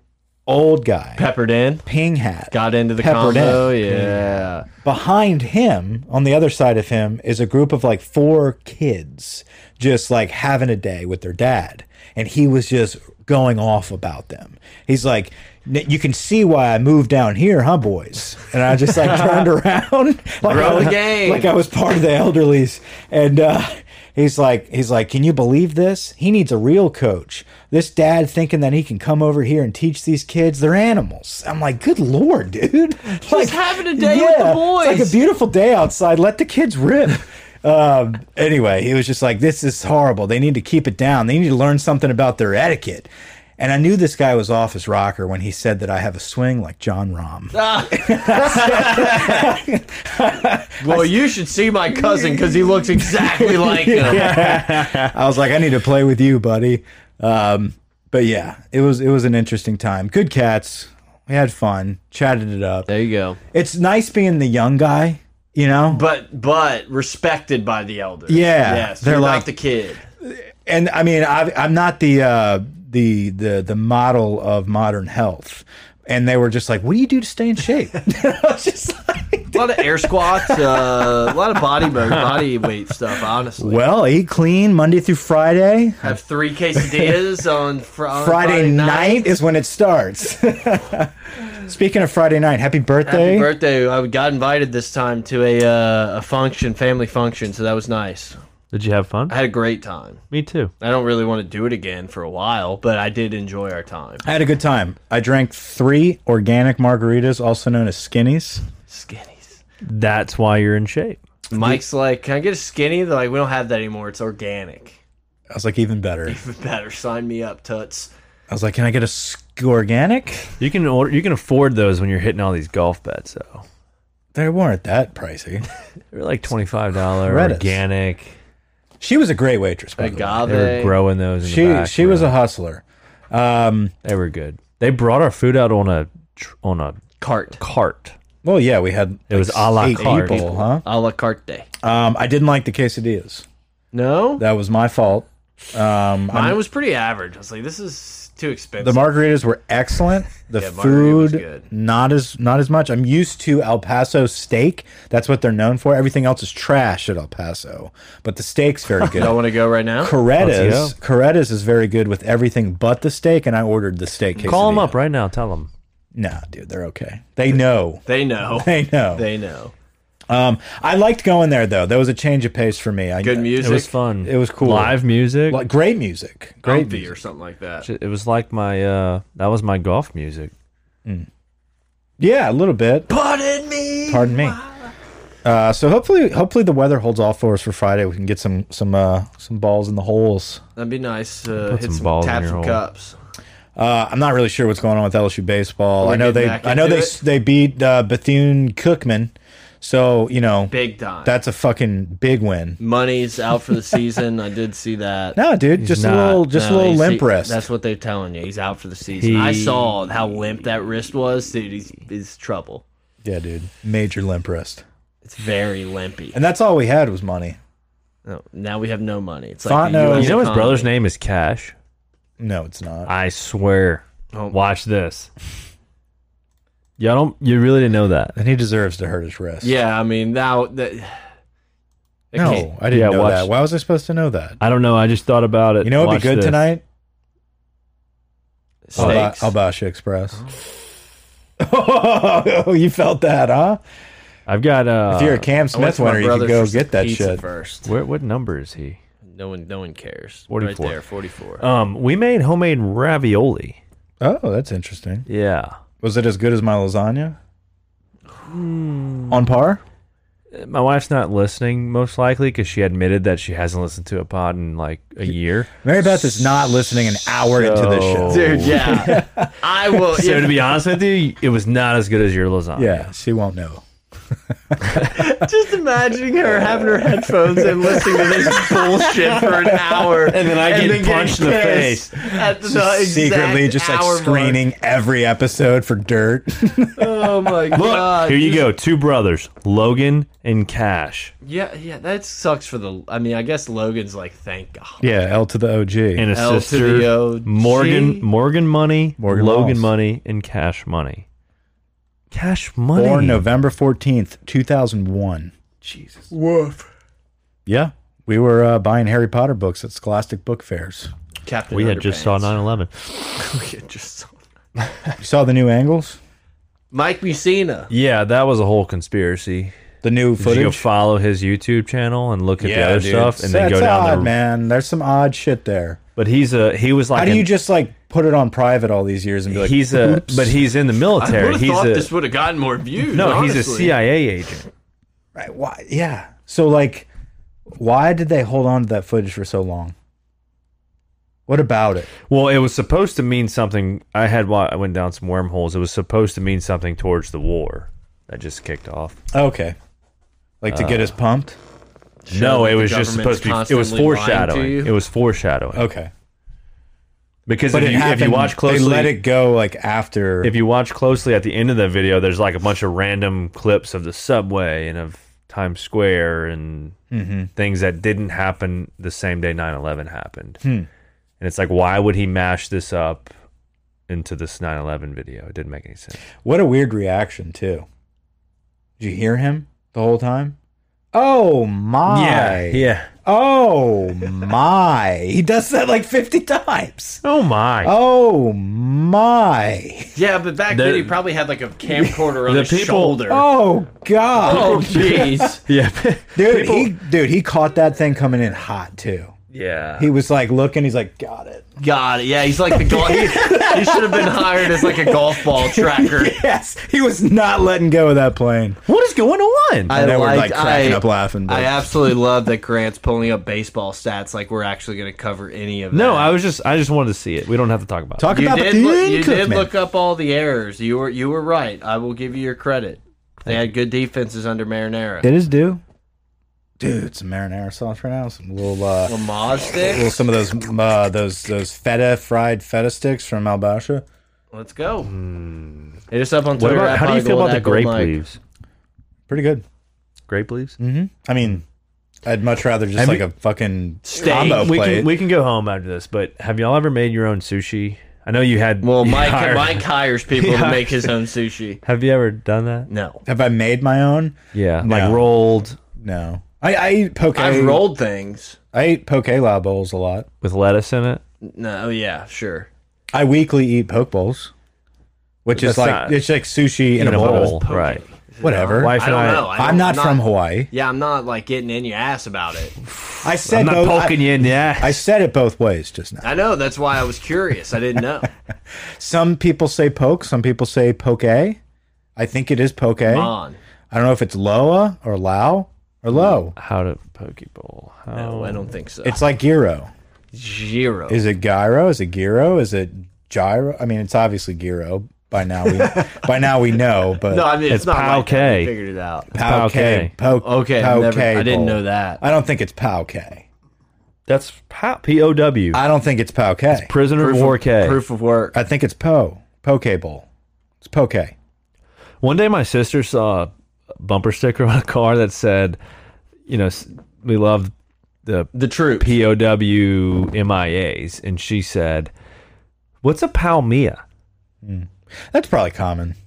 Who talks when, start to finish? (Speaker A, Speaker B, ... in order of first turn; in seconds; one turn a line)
Speaker A: 0.5-1.3
Speaker B: 1.2-1.9
Speaker A: 1.9-51.2
Speaker B: 2.5-4.7
Speaker B: 20.4-21.5
Speaker B: 33.1-35.2
Speaker B: 47.5-49.6
Speaker B: 50.8-54.4
Speaker A: 52.1-62.9
Speaker C: 54.1-55.1
Speaker B: 62.9-63.4
Speaker A: 63.5-66.0
Speaker B: 65.9-70.0
Speaker A: 68.3-69.5
Speaker A: 70.2-81.3
Speaker B: 79.5-83.8
Speaker A: 83.6-86.2
Speaker B: 86.0-89.3
Speaker A: 86.8-87.1
Speaker A: 88.2-93.5
Speaker B: 93.0-98.4
Speaker C: 98.7-99.4
Speaker B: 99.3-100.2
Speaker C: 100.3-100.7
Speaker B: 100.8-104.2
Speaker A: 104.2-108.6
Speaker B: 108.9-109.6
Speaker C: 109.8-111.2
Speaker B: 111.5-115.0
Speaker A: 115.5-116.4
Speaker B: 116.3-118.1
Speaker A: 118.5-120.5
Speaker C: 120.6-123.7
Speaker A: 124.3-125.7
Speaker C: 126.1-128.3
Speaker A: 127.2-127.8
Speaker A: 129.0-130.5
Speaker B: 130.0-130.9
Speaker C: 130.5-132.4
Speaker A: 131.4-133.9
Speaker C: 134.0-137.0
Speaker B: 137.2-137.6
Speaker C: 137.6-138.2
Speaker A: 138.4-140.8
Speaker C: 139.3-140.4
Speaker B: 140.0-141.7
Speaker A: 141.8-143.5
Speaker B: 143.9-144.4
Speaker A: 144.4-146.6
Speaker B: 146.3-149.1
Speaker A: 148.8-165.0
Speaker B: 150.5-151.7
Speaker B: 159.1-160.2
Speaker C: 160.4-160.9
Speaker C: 164.4-165.7
Speaker A: 166.2-168.0
Speaker B: 168.1-169.7
Speaker A: 168.6-169.3
Speaker A: 170.3-177.1
Speaker B: 173.2-173.9
Speaker C: 173.6-175.6
Speaker B: 176.7-177.9
Speaker C: 177.8-180.5
Speaker A: 182.2-183.1
Speaker B: 183.1-184.8
Speaker A: 184.1-184.6
Speaker A: 185.4-190.6
Speaker B: 190.8-193.2
Speaker C: 191.6-192.8
Speaker A: 193.8-202.8
Speaker B: 196.0-197.2
Speaker B: 200.7-201.3
Speaker B: 202.8-205.4
Speaker A: 205.3-207.7
Speaker C: 205.8-206.5
Speaker B: 206.5-212.8
Speaker C: 209.2-209.9
Speaker A: 213.2-214.8
Speaker B: 215.2-216.4
Speaker A: 216.3-217.6
Speaker B: 218.2-220.9
Speaker A: 219.7-220.5
Speaker C: 220.1-221.7
Speaker A: 222.4-223.1
Speaker C: 223.1-225.3
Speaker C: 227.0-228.3
Speaker A: 228.4-229.8
Speaker B: 229.6-231.2
Speaker B: 232.3-232.7
Speaker A: 232.3-234.6
Speaker C: 232.4-233.5
Speaker C: 234.6-236.6
Speaker A: 235.8-236.8
Speaker B: 238.9-239.5
Speaker A: 239.0-240.4
Speaker C: 239.0-239.3
Speaker A: 241.6-243.8
Speaker C: 244.5-245.5
Speaker A: 245.1-247.4
Speaker B: 245.7-247.9
Speaker C: 247.9-249.0
Speaker B: 249.2-251.6
Speaker C: 250.5-251.0
Speaker C: 251.6-253.8
Speaker A: 254.2-255.3
Speaker C: 255.3-255.8
Speaker A: 256.0-257.4
Speaker C: 258.5-259.4
Speaker A: 259.3-259.8
Speaker C: 260.5-265.8
Speaker A: 265.8-269.5
Speaker C: 266.7-269.2
Speaker B: 268.3-270.7
Speaker C: 270.1-273.1
Speaker A: 272.8-273.8
Speaker A: 274.4-275.1
Speaker B: 275.0-284.6
Speaker A: 277.0-279.8
Speaker C: 280.2-282.3
Speaker A: 282.6-287.7
Speaker B: 287.0-288.7
Speaker C: 287.7-291.3
Speaker B: 291.4-295.1
Speaker A: 295.0-296.3
Speaker C: 296.2-301.2
Speaker B: 296.3-298.3
Speaker A: 299.2-299.9
Speaker C: 302.3-303.4
Speaker A: 302.9-305.5
Speaker C: 305.8-306.3
Speaker B: 306.3-306.9
Speaker A: 307.7-311.1
Speaker B: 311.4-312.6
Speaker C: 311.7-312.9
Speaker B: 313.4-314.4
Speaker A: 315.2-316.2
Speaker B: 316.9-317.9
Speaker C: 317.9-319.7
Speaker A: 320.0-320.9
Speaker C: 320.4-324.3
Speaker A: 322.6-326.0
Speaker C: 326.2-327.5
Speaker A: 327.1-330.6
Speaker C: 329.5-332.1
Speaker B: 331.2-333.9
Speaker C: 333.1-334.7
Speaker A: 335.4-337.1
Speaker A: 337.7-339.9
Speaker A: 341.5-342.1
Speaker C: 342.3-349.2
Speaker A: 349.3-349.8
Speaker A: 350.6-351.6
Speaker C: 350.7-351.1
Speaker B: 352.3-354.9
Speaker C: 352.3-355.9
Speaker A: 355.7-356.1
Speaker C: 357.5-359.2
Speaker A: 357.7-360.6
Speaker C: 360.4-367.0
Speaker A: 367.1-367.5
Speaker C: 367.6-370.6
Speaker A: 370.6-370.9
Speaker C: 371.4-373.3
Speaker C: 374.1-376.2
Speaker A: 376.4-377.9
Speaker A: 379.0-380.6
Speaker A: 381.1-387.2
Speaker C: 382.1-383.1
Speaker C: 387.2-387.9
Speaker A: 387.8-390.1
Speaker B: 390.2-393.5
Speaker C: 390.7-391.2
Speaker C: 392.0-393.2
Speaker A: 393.3-395.5
Speaker C: 394.4-396.9
Speaker B: 394.4-395.6
Speaker A: 396.4-399.3
Speaker C: 399.5-400.1
Speaker A: 400.0-401.7
Speaker B: 401.8-406.4
Speaker A: 402.7-408.8
Speaker C: 408.9-409.9
Speaker B: 409.9-416.4
Speaker A: 409.9-411.9
Speaker C: 415.9-418.3
Speaker A: 418.2-419.7
Speaker B: 418.3-425.3
Speaker A: 425.2-425.8
Speaker A: 426.8-429.1
Speaker B: 429.1-430.2
Speaker A: 429.8-434.1
Speaker B: 434.5-435.1
Speaker C: 435.1-436.0
Speaker B: 436.1-438.2
Speaker C: 436.6-438.4
Speaker A: 439.3-439.6
Speaker C: 440.3-440.8
Speaker A: 440.8-441.6
Speaker A: 442.2-445.1
Speaker C: 443.0-443.2
Speaker B: 444.1-444.7
Speaker C: 444.3-451.1
Speaker B: 448.8-451.8
Speaker C: 451.8-452.9
Speaker B: 452.9-453.2
Speaker A: 453.3-455.3
Speaker C: 454.5-455.8
Speaker A: 456.0-457.9
Speaker B: 457.3-458.6
Speaker A: 458.7-460.3
Speaker C: 460.4-461.2
Speaker B: 461.4-462.7
Speaker A: 463.1-464.5
Speaker A: 465.4-467.6
Speaker C: 465.5-466.3
Speaker C: 467.0-468.0
Speaker B: 467.0-472.8
Speaker A: 468.4-469.0
Speaker C: 468.8-469.6
Speaker A: 469.5-470.7
Speaker C: 472.9-475.0
Speaker A: 473.2-476.4
Speaker B: 476.2-478.3
Speaker A: 479.0-481.6
Speaker A: 482.2-483.3
Speaker B: 483.1-483.6
Speaker A: 483.9-486.6
Speaker C: 486.6-488.7
Speaker B: 488.1-489.2
Speaker A: 489.0-489.9
Speaker B: 490.3-491.2
Speaker A: 491.1-497.6
Speaker B: 497.2-499.3
Speaker C: 497.7-498.7
Speaker C: 499.3-500.1
Speaker A: 499.3-503.5
Speaker B: 500.4-502.2
Speaker C: 504.3-505.8
Speaker A: 505.7-506.9
Speaker C: 506.7-508.0
Speaker B: 507.1-508.5
Speaker A: 508.5-510.3
Speaker A: 510.8-511.4
Speaker C: 512.2-515.8
Speaker C: 516.5-517.7
Speaker C: 518.2-522.1
Speaker B: 518.5-519.1
Speaker C: 523.0-524.0
Speaker A: 524.6-526.2